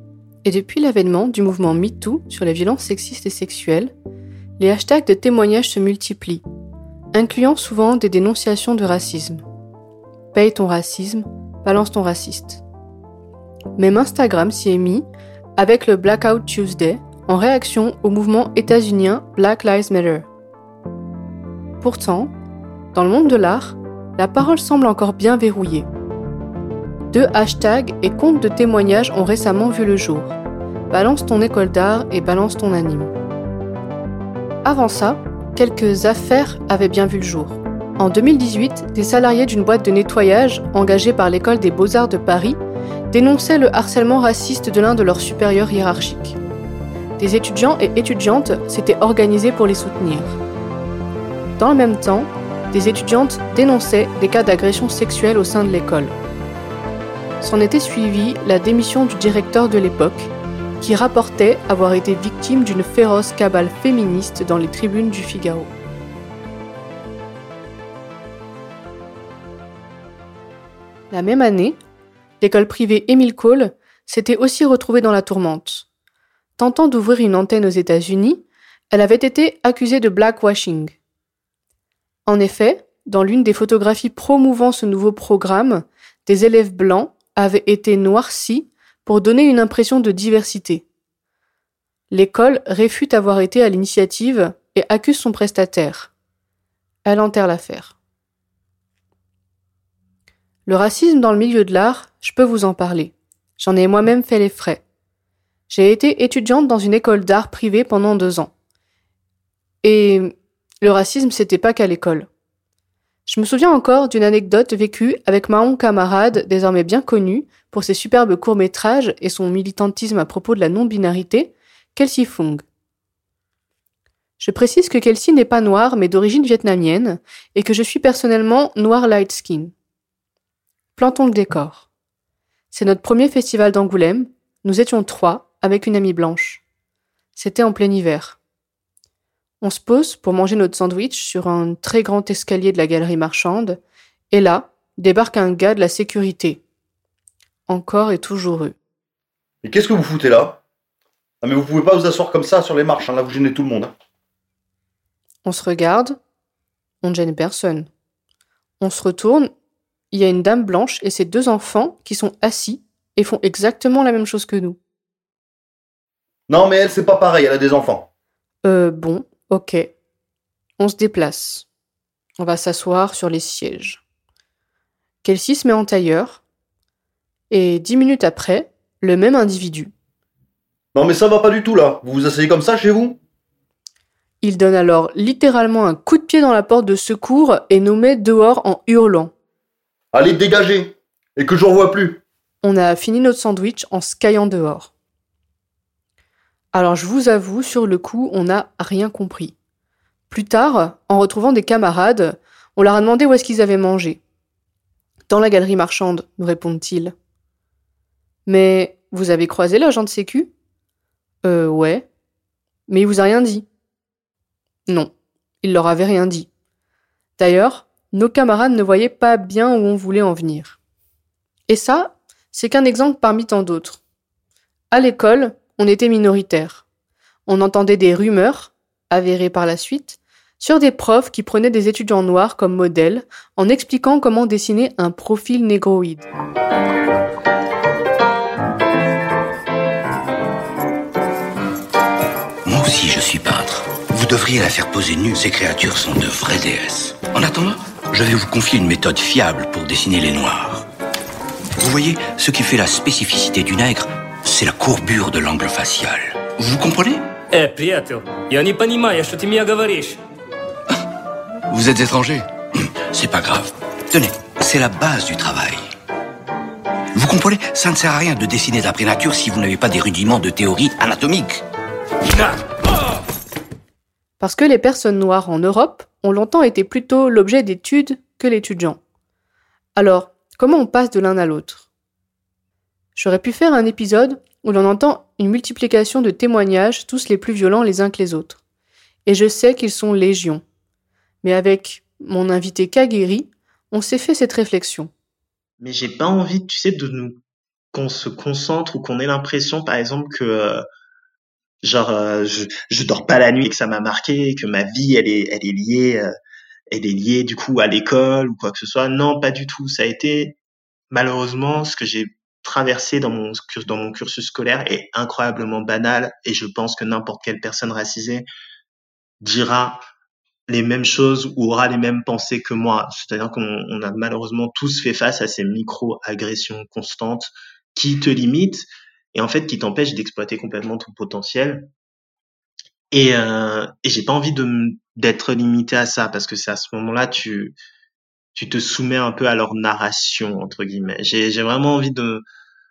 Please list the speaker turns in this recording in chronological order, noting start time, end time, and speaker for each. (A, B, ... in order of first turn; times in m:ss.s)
0:00.4-0:03.9 A
0:04.6-0:06.4 A
0:07.1-0:09.4 A
0:10.3-0:12.6 A
0:13.8-0:15.1 A
0:15.6-0:20.3 A
0:21.8-0:22.3 A
0:22.9-0:25.9 A
0:27.1-0:30.4 A
0:30.9-0:33.1 A
0:34.6-0:42.6 A
0:43.1-0:46.4 A
0:47.2-0:50.4 A
0:51.6-0:56.2 A
0:57.4-1:05.7 A
1:11.1-1:11.8 A
1:12.4-1:15.9 A
1:16.6-1:21.0 A
1:22.3-1:30.8 A
1:32.1-1:36.1 A
1:37.0-1:38.0 A
1:40.7-1:44.8 A
1:45.7-1:48.5 A
1:49.8-1:52.3 A
1:53.3-2:02.6 A
2:04.4-2:09.7 A
2:11.0-2:11.9 A
2:12.7-2:16.6 A
2:17.4-2:18.4 A
2:19.6-2:23.8 A
2:24.3-2:26.6 A
2:27.7-2:28.8 A
2:29.6-2:30.6 B
2:31.4-2:33.9 B
2:35.4-2:36.2 A
2:37.0-2:37.9 A
2:38.8-2:39.5 A
2:40.1-2:44.8 A
2:46.5-2:48.1 B
2:48.6-2:49.9 A
2:50.8-2:51.7 A
2:52.4-2:54.0 A
2:55.2-2:56.4 A
2:57.5-2:59.9 A
3:01.0-3:03.2 B
3:04.4-3:09.3 A
3:10.1-3:12.2 B
3:12.6-3:14.9 A
3:16.7-3:19.6 A
3:20.3-3:24.2 A
3:25.3-3:27.1 A
3:28.5-3:30.5 A
3:31.4-3:32.1 A
3:32.9-3:33.7 A
3:35.6-3:36.5 A
3:37.4-3:40.8 A
3:41.7-3:44.0 A
3:44.9-3:46.8 A
3:47.5-3:56.3 A
4:02.6-4:10.8 C
4:11.8-4:17.2 C
4:17.8-4:20.1 D
4:21.7-4:25.9 C
4:27.2-4:31.6 C
4:32.2-4:32.6 C
4:34.4-4:39.0 A
4:40.0-4:41.9 A
4:43.2-4:48.6 A
4:49.3-4:50.6 A
4:51.4-4:55.1 A
4:55.8-4:57.4 E
4:57.9-5:00.8 E
5:01.8-5:06.3 E
5:06.9-5:10.6 E
5:11.1-5:18.5 E
5:19.4-5:20.0 E
5:20.7-5:31.9 E
5:33.1-5:37.8 E
5:38.6-5:42.4 E